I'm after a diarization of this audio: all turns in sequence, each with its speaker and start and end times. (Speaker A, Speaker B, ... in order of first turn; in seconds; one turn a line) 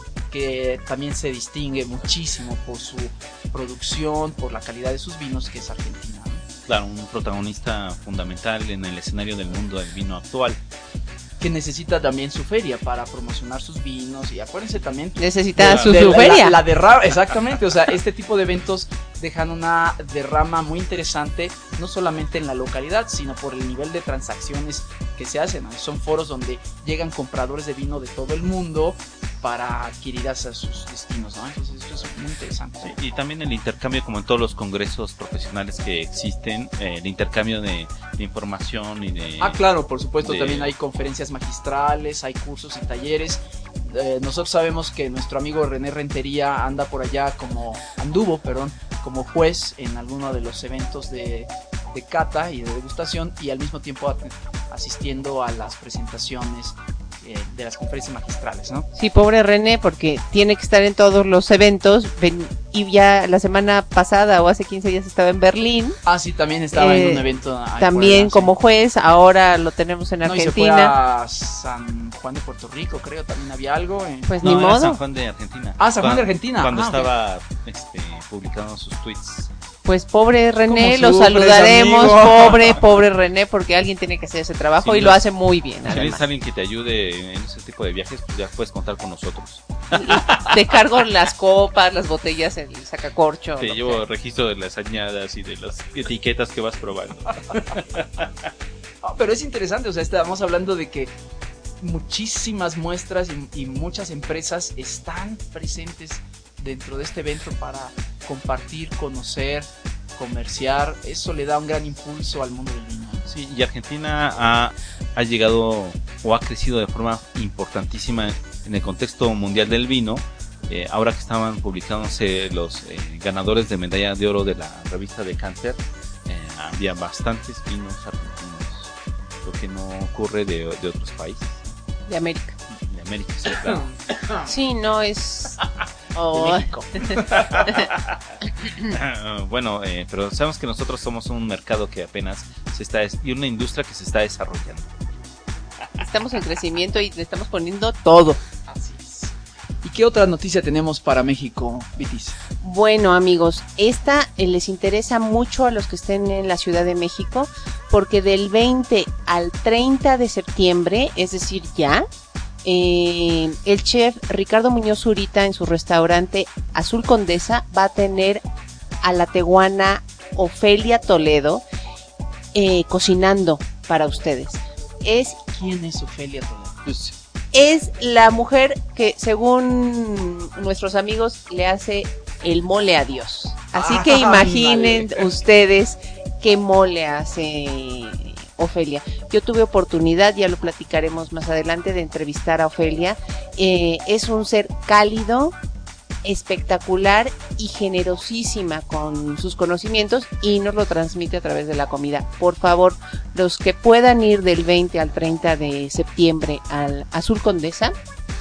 Speaker A: 0.3-6.4
Speaker B: 6.7-10.6
Speaker A: 11.4-33.0
Speaker C: 15.2-16.6
Speaker B: 15.6-16.0
Speaker B: 32.8-39.6
Speaker A: 39.4-58.9
Speaker B: 40.2-40.7
Speaker C: 58.9-66.0
Speaker A: 66.0-68.5
Speaker C: 66.7-67.2
Speaker C: 67.8-70.9
Speaker A: 70.2-74.5
Speaker C: 74.3-75.0
Speaker B: 74.4-79.5
Speaker A: 75.8-77.1
Speaker C: 79.8-86.2
Speaker A: 80.7-82.6
Speaker B: 82.2-82.6
Speaker B: 84.8-85.2
Speaker B: 85.9-90.5
Speaker C: 89.9-94.0
Speaker B: 93.6-98.3
Speaker A: 99.0-101.1
Speaker A: 101.8-113.3
Speaker B: 113.3-128.9
Speaker B: 129.4-131.7
Speaker C: 132.1-132.6
Speaker B: 132.7-133.9
Speaker C: 134.4-135.6
Speaker C: 136.1-137.8
Speaker A: 136.3-137.6
Speaker B: 137.3-138.0
Speaker B: 138.8-144.9
Speaker C: 146.0-148.4
Speaker A: 148.7-152.4
Speaker C: 152.6-162.1
Speaker C: 162.6-168.4
Speaker C: 169.0-171.6
Speaker C: 172.5-175.4
Speaker A: 175.5-176.8
Speaker B: 176.8-177.1
Speaker C: 177.5-195.5
Speaker A: 183.7-185.3
Speaker C: 196.2-207.9